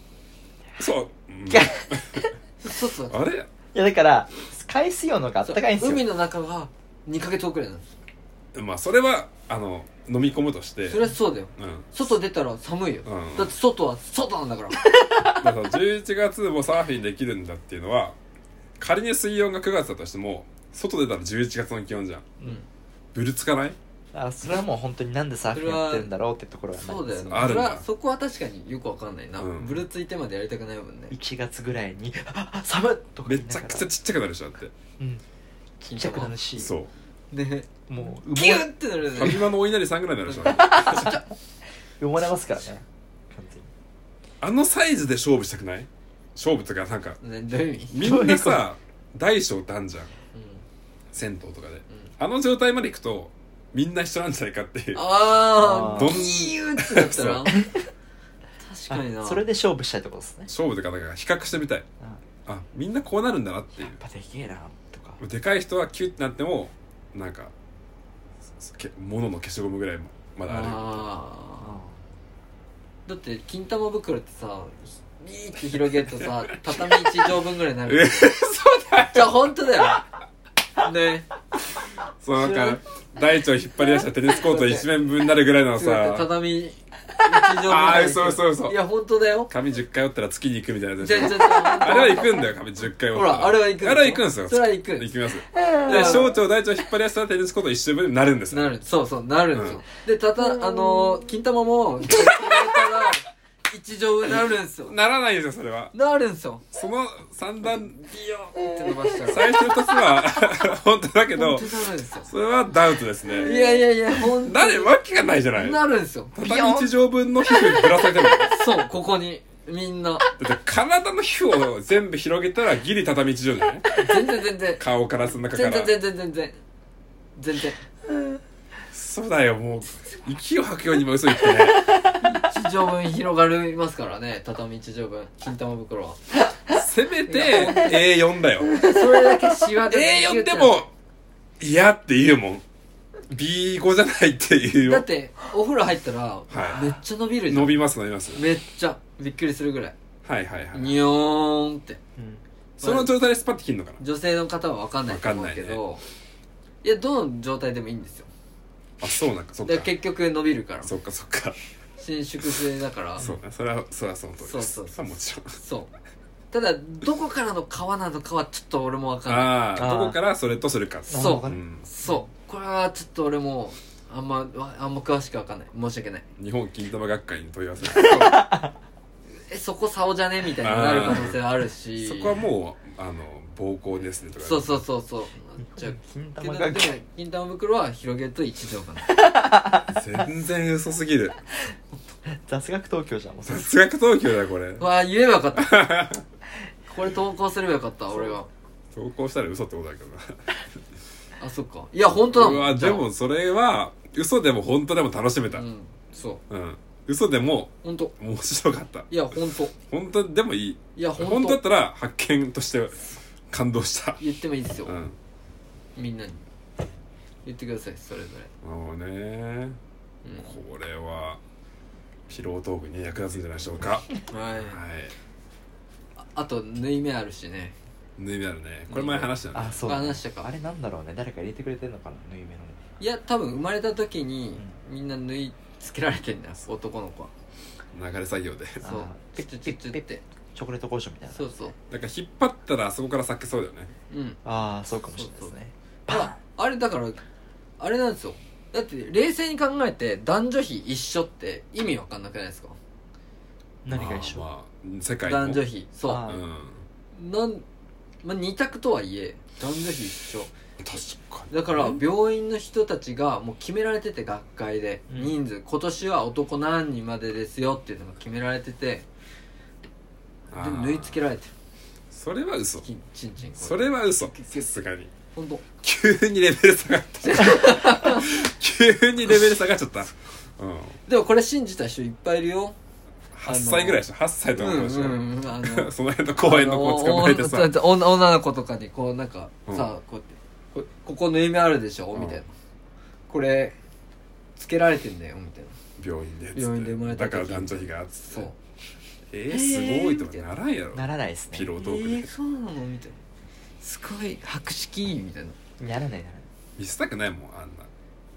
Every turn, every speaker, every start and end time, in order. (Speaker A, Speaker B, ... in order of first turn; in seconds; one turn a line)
Speaker A: 0.8-2.3
Speaker B: 1.5-2.3
Speaker C: 2.6-3.2
Speaker A: 3.1-3.5
Speaker B: 3.7-6.0
Speaker C: 5.4-7.9
Speaker A: 8.5-11.0
Speaker C: 10.9-14.8
Speaker A: 11.6-11.9
Speaker A: 13.0-13.5
Speaker B: 15.0-15.3
Speaker A: 15.3-18.2
Speaker A: 18.8-22.3
Speaker A: 23.1-23.8
Speaker B: 24.1-27.6
Speaker C: 25.5-26.1
Speaker C: 26.8-31.1
Speaker A: 27.3-27.8
Speaker A: 29.4-29.8
Speaker B: 31.1-33.9
Speaker A: 33.2-34.7
Speaker B: 35.0-35.2
Speaker B: 35.8-36.7
Speaker C: 35.9-36.3
Speaker A: 36.6-36.9
Speaker C: 37.3-37.7
Speaker B: 37.9-38.7
Speaker C: 38.3-39.5
Speaker A: 39.1-41.2
Speaker C: 40.3-41.2
Speaker B: 40.5-41.2
Speaker B: 42.0-43.7
Speaker A: 44.4-47.2
Speaker C: 47.2-48.0
Speaker A: 47.9-50.1
Speaker B: 48.0-48.6
Speaker C: 50.3-50.6
Speaker A: 51.1-55.1
Speaker C: 54.9-57.6
Speaker B: 55.6-56.3
Speaker A: 55.9-57.5
Speaker B: 57.5-57.9
Speaker C: 58.6-59.4
Speaker B: 58.9-60.5
Speaker A: 60.5-61.9
Speaker A: 62.5-64.0
Speaker B: 63.8-65.2
Speaker A: 65.2-67.5
Speaker A: 68.6-71.1
Speaker C: 70.4-71.8
Speaker B: 71.6-72.0
Speaker C: 73.0-78.2
Speaker A: 77.9-79.4
Speaker C: 79.0-80.1
Speaker C: 80.8-81.3
Speaker A: 82.2-86.3
Speaker C: 84.4-84.9
Speaker C: 85.8-89.5
Speaker A: 87.6-88.8
Speaker A: 89.5-98.8
Speaker C: 91.0-92.4
Speaker C: 93.1-95.1
Speaker C: 95.8-96.3
Speaker C: 98.5-104.9
Speaker A: 99.5-99.8
Speaker A: 102.2-102.7
Speaker A: 104.3-105.9
Speaker C: 105.9-106.6
Speaker A: 106.7-113.5
Speaker C: 108.6-109.7
Speaker C: 111.3-112.3
Speaker C: 113.4-114.9
Speaker A: 114.1-115.8
Speaker C: 115.5-116.3
Speaker A: 116.3-118.6
Speaker B: 116.4-116.9
Speaker C: 118.4-120.2
Speaker A: 120.4-123.9
Speaker C: 124.0-124.8
Speaker A: 124.8-126.0
Speaker C: 125.5-126.6
Speaker C: 127.3-127.8
Speaker A: 128.9-132.1
Speaker C: 132.1-136.4
Speaker A: 136.7-138.9
Speaker C: 137.3-138.0
Speaker C: 138.7-140.8
Speaker A: 139.8-140.9
Speaker A: 141.6-142.6
Speaker A: 143.3-145.1
Speaker C: 144.8-147.8
Speaker A: 146.5-148.4
Speaker C: 148.3-149.9
Speaker A: 150.2-151.0
Speaker C: 150.7-152.0
Speaker B: 152.2-152.4
Speaker A: 152.8-154.0
Speaker C: 152.8-153.1
Speaker C: 154.0-156.0
Speaker A: 155.1-155.8
Speaker C: 156.8-158.3
Speaker A: 159.0-159.9
Speaker C: 159.6-160.9
Speaker A: 160.8-161.6
Speaker C: 162.0-163.2
Speaker A: 163.2-165.6
Speaker C: 164.4-165.9
Speaker C: 166.5-169.5
Speaker A: 169.3-171.8
Speaker B: 169.8-170.2
Speaker B: 171.1-172.2
Speaker C: 171.2-176.2
Speaker A: 176.4-178.4
Speaker C: 177.9-178.4
Speaker B: 177.9-178.7
Speaker C: 179.3-182.4
Speaker A: 180.6-181.4
Speaker A: 182.0-184.8
Speaker C: 184.4-189.2
Speaker B: 185.8-187.0
Speaker B: 189.1-189.9
Speaker A: 189.8-191.4
Speaker B: 192.2-193.7
Speaker A: 193.5-194.8
Speaker C: 194.8-195.8
Speaker A: 195.6-196.2
Speaker C: 196.9-198.5
Speaker A: 198.9-200.5
Speaker C: 201.4-203.0
Speaker A: 202.2-205.6
Speaker C: 205.5-206.4
Speaker A: 206.5-209.1
Speaker C: 207.8-208.1
Speaker C: 209.1-209.7
Speaker A: 209.9-214.2
Speaker C: 210.9-211.6
Speaker C: 214.2-215.0
Speaker A: 214.8-215.2
Speaker C: 215.9-216.4
Speaker C: 217.4-218.5
Speaker A: 218.6-219.8
Speaker C: 220.2-220.5
Speaker A: 220.4-221.4
Speaker A: 222.3-225.1
Speaker C: 224.3-224.8
Speaker C: 226.2-227.8
Speaker A: 228.2-229.9
Speaker C: 228.9-229.3
Speaker B: 229.5-232.8
Speaker C: 229.8-230.5
Speaker C: 233.0-237.3
Speaker A: 237.9-238.8
Speaker B: 238.8-241.7
Speaker C: 238.8-240.2
Speaker C: 241.3-241.7
Speaker A: 241.9-243.9
Speaker C: 244.1-244.4
Speaker B: 244.4-246.4
Speaker C: 245.1-245.5
Speaker C: 246.1-247.2
Speaker C: 247.8-252.8
Speaker B: 253.8-254.4
Speaker A: 253.9-255.6
Speaker C: 255.2-256.2
Speaker B: 256.1-256.4
Speaker A: 256.2-256.9
Speaker C: 257.1-257.6
Speaker C: 258.2-260.5
Speaker A: 260.8-262.0
Speaker C: 261.5-269.1
Speaker A: 270.5-271.2
Speaker C: 270.5-271.5
Speaker A: 272.1-272.9
Speaker C: 272.8-274.8
Speaker A: 273.6-275.1
Speaker C: 275.3-275.6
Speaker A: 275.8-281.0
Speaker C: 277.2-278.4
Speaker C: 281.1-282.8
Speaker A: 283.3-287.8
Speaker C: 283.4-284.0
Speaker C: 284.5-292.5
Speaker A: 292.1-292.4
Speaker C: 293.3-293.8
Speaker C: 294.6-295.8
Speaker A: 296.0-298.5
Speaker C: 296.5-298.6
Speaker A: 299.3-302.3
Speaker C: 299.5-300.5
Speaker B: 300.9-301.7
Speaker C: 301.8-303.2
Speaker C: 303.8-305.6
Speaker B: 305.8-306.5
Speaker A: 306.8-307.9